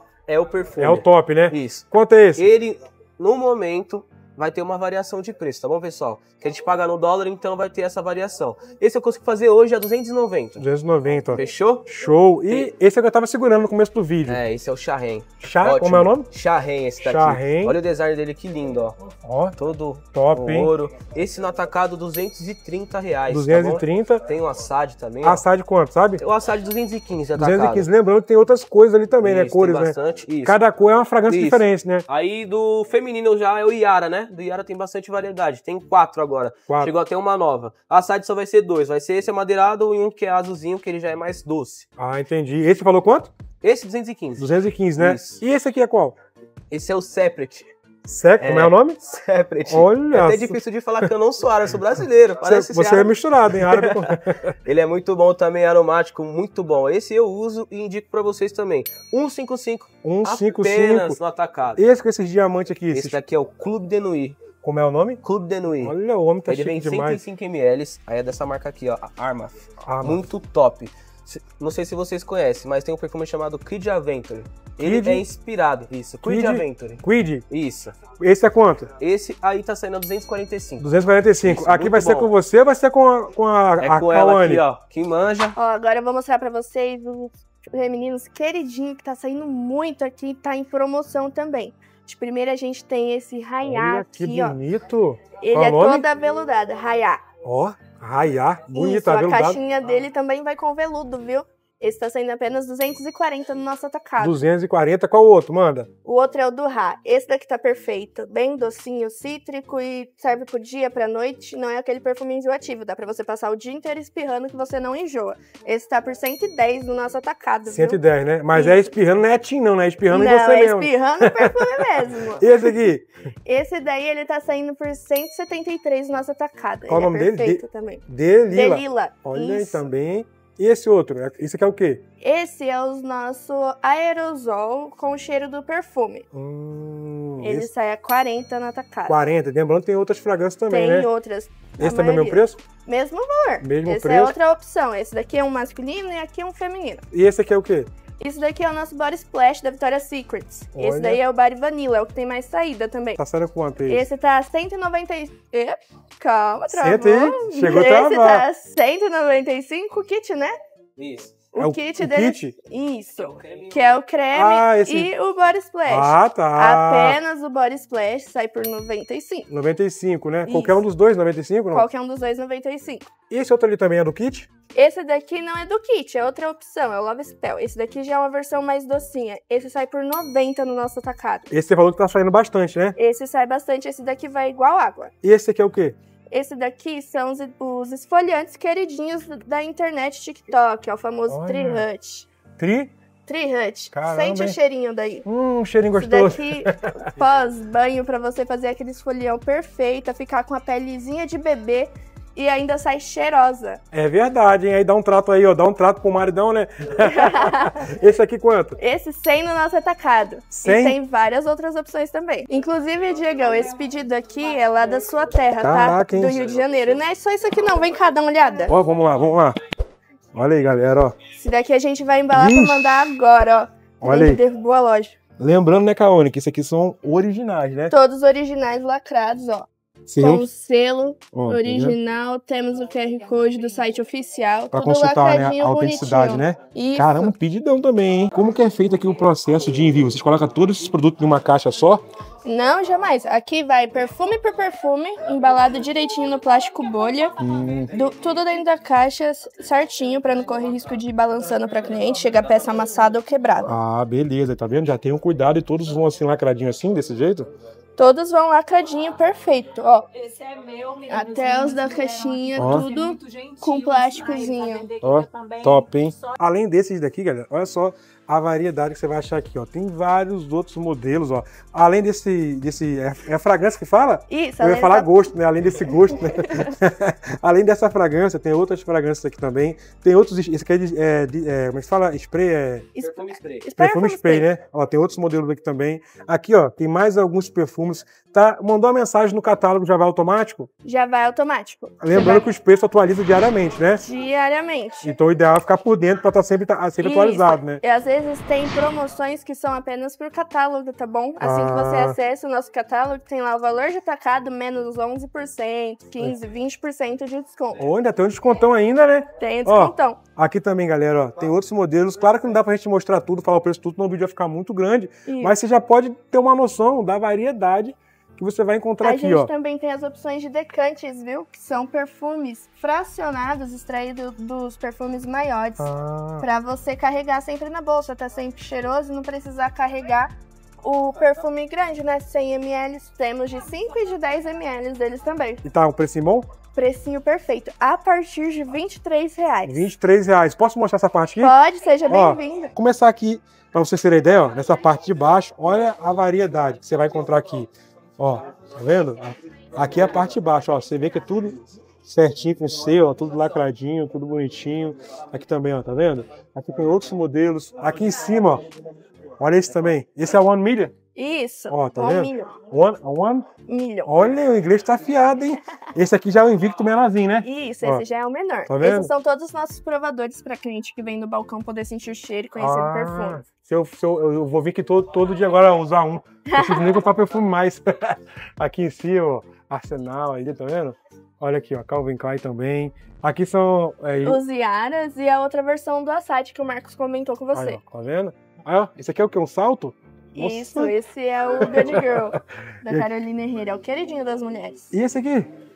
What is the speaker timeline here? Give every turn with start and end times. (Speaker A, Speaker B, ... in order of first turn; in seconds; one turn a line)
Speaker A: 0.3-1.9
Speaker B: 0.8-2.5
Speaker A: 2.4-10.6
Speaker B: 10.6-14.4
Speaker A: 11.3-11.9
Speaker A: 14.3-19.0
Speaker B: 15.4-16.3
Speaker B: 17.0-17.8
Speaker B: 19.2-19.6
Speaker A: 19.6-25.4
Speaker B: 20.1-20.7
Speaker B: 23.3-24.2
Speaker B: 25.2-26.2
Speaker A: 26.2-27.9
Speaker B: 27.4-32.1
Speaker A: 29.2-30.6
Speaker A: 31.3-41.9
Speaker B: 36.7-36.9
Speaker B: 42.0-43.3
Speaker A: 43.6-45.4
Speaker B: 44.4-46.2
Speaker A: 46.7-47.7
Speaker B: 48.1-49.0
Speaker A: 48.4-61.8
Speaker B: 49.7-51.0
Speaker B: 52.4-54.5
Speaker B: 60.0-61.2
Speaker B: 61.8-63.2
Speaker A: 62.9-64.4
Speaker B: 64.6-65.2
Speaker A: 65.2-66.0
Speaker B: 65.8-67.2
Speaker A: 66.5-78.0
Speaker B: 69.8-70.2
Speaker B: 74.8-75.3
Speaker B: 76.2-77.5
Speaker B: 78.2-78.9
Speaker A: 79.0-80.9
Speaker B: 80.8-84.6
Speaker A: 81.4-82.3
Speaker A: 83.8-85.6
Speaker C: 85.5-94.6
Speaker B: 93.6-96.0
Speaker C: 95.4-97.2
Speaker B: 97.4-99.6
Speaker C: 98.8-104.4
Speaker B: 104.2-105.9
Speaker C: 106.0-118.0
Speaker B: 117.7-123.0
Speaker C: 118.5-118.9
Speaker C: 120.1-122.8
Speaker C: 123.5-129.8
Speaker B: 126.9-132.0
Speaker C: 132.2-136.3
Speaker B: 136.3-137.7
Speaker C: 137.4-139.2
Speaker B: 139.1-141.1
Speaker C: 140.7-147.1
Speaker B: 141.8-142.6
Speaker B: 143.6-144.3
Speaker B: 147.1-147.9
Speaker C: 148.2-153.2
Speaker B: 150.8-151.2
Speaker B: 153.2-154.1
Speaker C: 153.9-160.6
Speaker B: 156.7-158.4
Speaker A: 161.0-161.4
Speaker C: 161.5-169.5
Speaker B: 161.6-162.5
Speaker A: 163.3-163.8
Speaker B: 164.3-165.1
Speaker B: 165.9-167.2
Speaker B: 169.5-171.9
Speaker C: 170.5-170.8
Speaker C: 171.7-173.1
Speaker B: 173.3-174.5
Speaker C: 174.8-181.5
Speaker B: 181.5-183.0
Speaker C: 183.0-185.1
Speaker B: 185.2-186.0
Speaker C: 186.3-192.3
Speaker B: 191.3-191.8
Speaker B: 192.6-192.9
Speaker C: 193.3-195.3
Speaker B: 193.9-194.6
Speaker B: 195.2-197.1
Speaker C: 196.0-203.8
Speaker B: 203.9-208.8
Speaker C: 207.1-207.8
Speaker C: 208.8-218.7
Speaker B: 210.5-210.9
Speaker B: 215.6-216.4
Speaker B: 218.7-219.6
Speaker B: 220.3-221.2
Speaker C: 221.4-225.2
Speaker B: 222.3-223.2
Speaker B: 224.0-224.4
Speaker B: 225.4-227.9
Speaker C: 227.9-229.7
Speaker B: 230.1-230.5
Speaker C: 230.2-237.3
Speaker B: 231.3-232.0
Speaker B: 234.7-242.0
Speaker C: 242.4-247.4
Speaker B: 247.4-247.9
Speaker C: 247.9-253.7
Speaker B: 253.7-257.5
Speaker C: 258.0-260.1
Speaker D: 260.2-266.3
Speaker C: 261.1-264.9
Speaker B: 262.6-262.9
Speaker B: 265.0-282.9
Speaker C: 274.3-275.3
Speaker C: 282.9-284.5
Speaker A: 283.0-283.6
Speaker B: 283.8-290.7
Speaker C: 290.9-292.5
Speaker B: 292.0-294.0
Speaker C: 294.0-295.1
Speaker B: 295.0-297.8
Speaker C: 297.0-307.8
Speaker B: 301.4-302.1
Speaker B: 307.8-319.5
Speaker C: 309.4-310.2
Speaker C: 315.3-315.6
Speaker C: 319.0-325.9
Speaker B: 325.8-326.5
Speaker C: 326.4-335.6
Speaker B: 335.6-336.5
Speaker C: 336.7-339.8
Speaker B: 339.6-341.5
Speaker C: 341.4-342.7
Speaker B: 342.1-358.6
Speaker B: 359.4-360.9
Speaker C: 361.1-362.6
Speaker B: 361.7-363.5
Speaker C: 363.7-364.1
Speaker B: 364.1-368.0
Speaker C: 367.4-373.4
Speaker B: 368.7-369.1
Speaker B: 372.6-384.4
Speaker C: 376.5-376.9
Speaker C: 384.2-387.8
Speaker B: 387.5-390.9
Speaker C: 390.4-394.9
Speaker B: 391.6-392.4
Speaker B: 394.9-395.5